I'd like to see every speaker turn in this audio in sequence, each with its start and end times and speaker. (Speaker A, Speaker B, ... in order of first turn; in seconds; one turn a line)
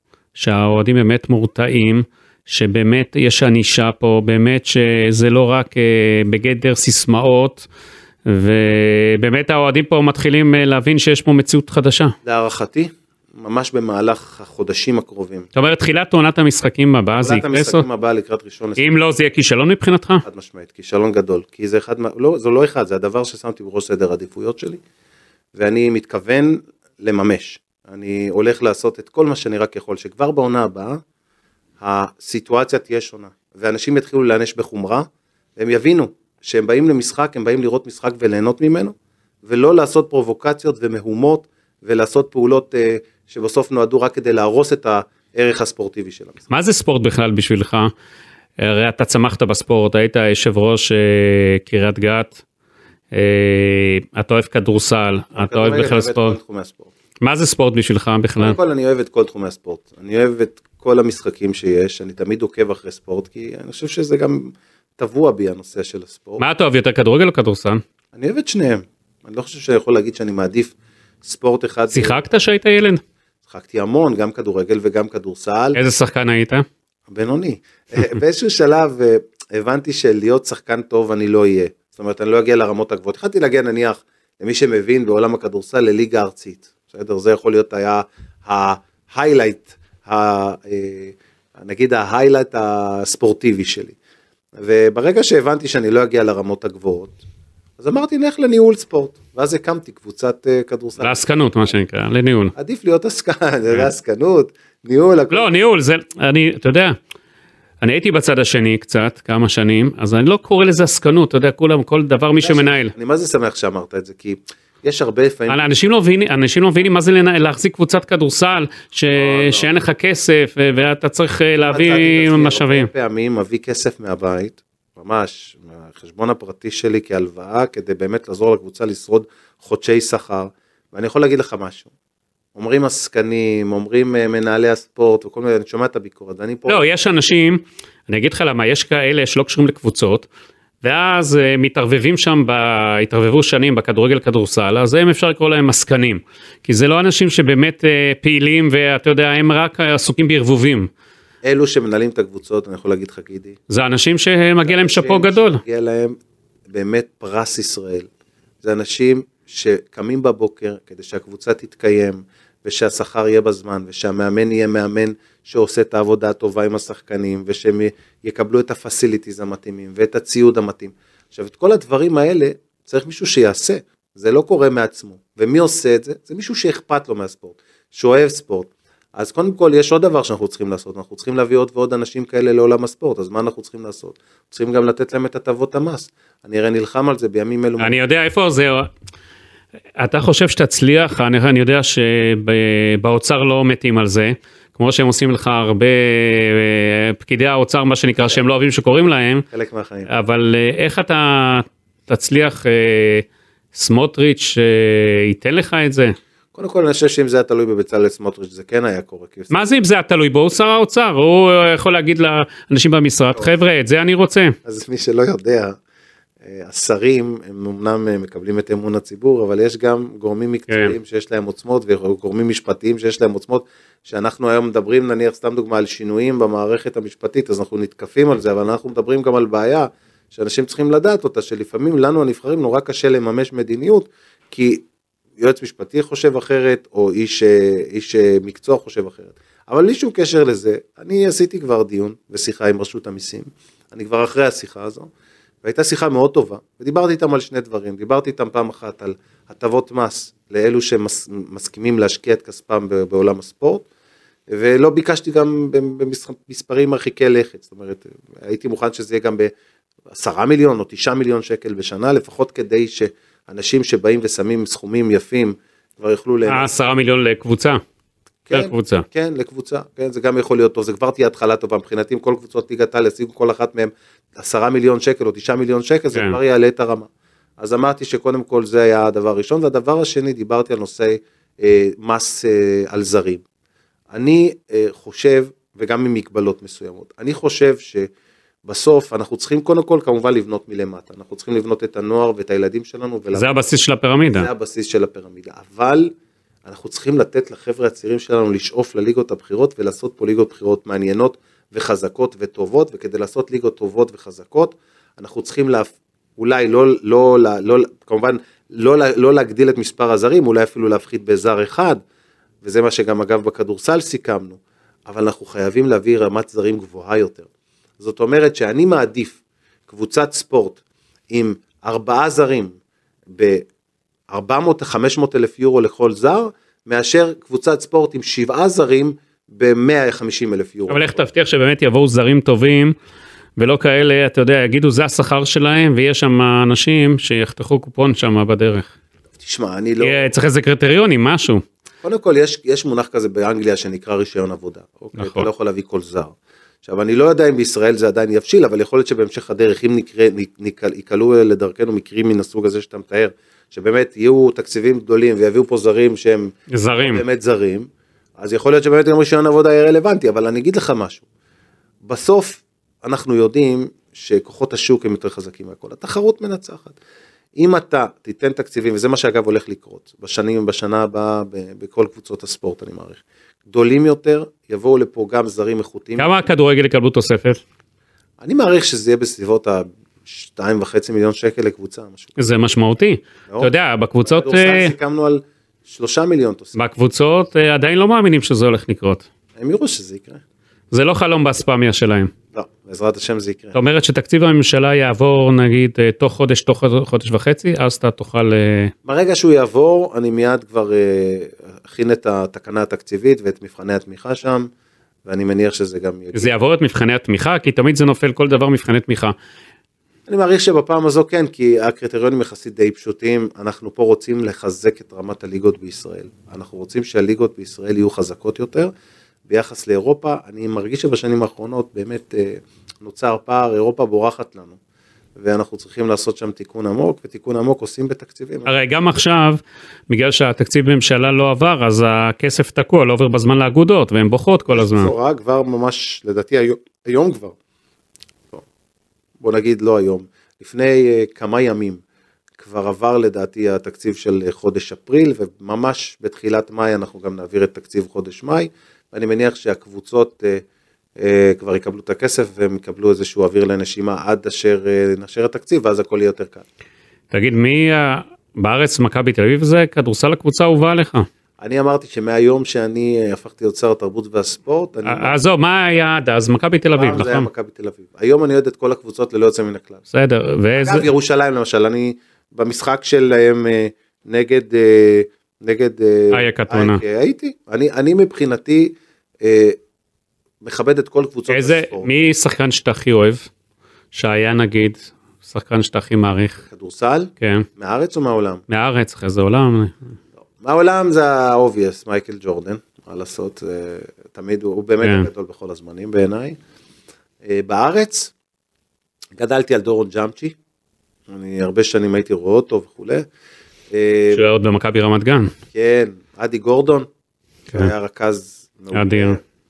Speaker A: 0.3-7.7
Speaker A: 8.2-12.1
Speaker B: 12.2-15.5
Speaker A: 15.5-17.8
Speaker B: 17.1-18.9
Speaker A: 18.8-20.2
Speaker B: 20.2-24.8
Speaker B: 25.5-31.0
Speaker B: 31.8-46.4
Speaker A: 46.5-47.9
Speaker A: 48.6-52.4
Speaker A: 53.1-56.4
Speaker B: 55.3-56.9
Speaker A: 57.2-58.6
Speaker B: 58.4-66.4
Speaker A: 66.4-67.8
Speaker B: 68.1-72.2
Speaker A: 71.9-73.0
Speaker B: 73.5-75.8
Speaker A: 75.7-76.7
Speaker B: 77.1-94.0
Speaker B: 94.5-97.2
Speaker B: 97.8-101.2
Speaker A: 101.0-102.5
Speaker B: 102.5-105.5
Speaker A: 105.3-106.9
Speaker A: 107.8-112.9
Speaker B: 112.4-115.7
Speaker A: 115.5-122.9
Speaker B: 119.1-119.7
Speaker B: 121.6-131.9
Speaker B: 132.5-136.8
Speaker A: 136.7-140.3
Speaker A: 140.8-150.9
Speaker B: 151.4-153.6
Speaker A: 153.7-155.6
Speaker B: 154.6-156.2
Speaker B: 156.7-158.1
Speaker B: 158.6-188.0
Speaker A: 187.8-188.9
Speaker A: 190.0-199.4
Speaker B: 199.5-200.1
Speaker A: 200.1-206.1
Speaker B: 206.5-209.6
Speaker A: 209.5-214.6
Speaker B: 214.6-215.8
Speaker B: 216.4-234.8
Speaker A: 220.7-220.9
Speaker B: 235.4-245.1
Speaker B: 245.6-253.8
Speaker B: 254.5-259.5
Speaker B: 260.1-266.7
Speaker A: 266.5-267.8
Speaker B: 268.5-283.4
Speaker A: 268.5-269.1
Speaker B: 284.1-288.1
Speaker B: 288.6-293.6
Speaker A: 293.3-294.5
Speaker B: 294.3-296.1
Speaker B: 296.6-312.0
Speaker B: 312.6-317.5
Speaker B: 318.0-322.8
Speaker B: 323.3-323.7
Speaker B: 324.3-331.2
Speaker A: 330.9-332.9
Speaker A: 333.6-338.9
Speaker B: 339.4-340.2
Speaker A: 340.0-341.6
Speaker B: 342.0-361.2
Speaker A: 345.1-345.5
Speaker A: 356.7-357.2
Speaker B: 362.0-367.0
Speaker B: 367.5-376.4
Speaker A: 376.2-377.6
Speaker B: 378.4-382.3
Speaker A: 382.4-384.9
Speaker B: 384.2-386.8
Speaker A: 386.7-389.3
Speaker B: 389.6-390.4
Speaker A: 390.9-392.3
Speaker B: 392.5-393.8
Speaker A: 393.7-398.9
Speaker B: 399.1-404.7
Speaker B: 405.2-406.5
Speaker A: 406.3-409.3
Speaker B: 410.3-418.9
Speaker B: 419.5-424.8
Speaker B: 425.4-428.7
Speaker A: 428.6-435.1
Speaker B: 434.7-437.6
Speaker B: 439.4-442.0
Speaker B: 442.6-450.6
Speaker B: 451.2-456.6
Speaker A: 457.3-461.3
Speaker B: 461.6-465.4
Speaker A: 465.0-467.5
Speaker B: 466.9-470.0
Speaker A: 470.1-471.1
Speaker B: 470.8-479.8
Speaker A: 476.3-477.0
Speaker B: 480.6-482.1
Speaker A: 481.5-483.5
Speaker A: 484.1-486.6
Speaker B: 486.6-488.6
Speaker A: 487.4-487.7
Speaker A: 488.7-490.0
Speaker B: 490.6-496.6
Speaker A: 495.0-495.3
Speaker B: 497.4-498.3
Speaker B: 499.4-500.6
Speaker B: 501.3-503.2
Speaker B: 503.9-504.4
Speaker A: 504.3-505.5
Speaker B: 505.7-507.1
Speaker B: 507.7-509.4
Speaker A: 508.9-509.4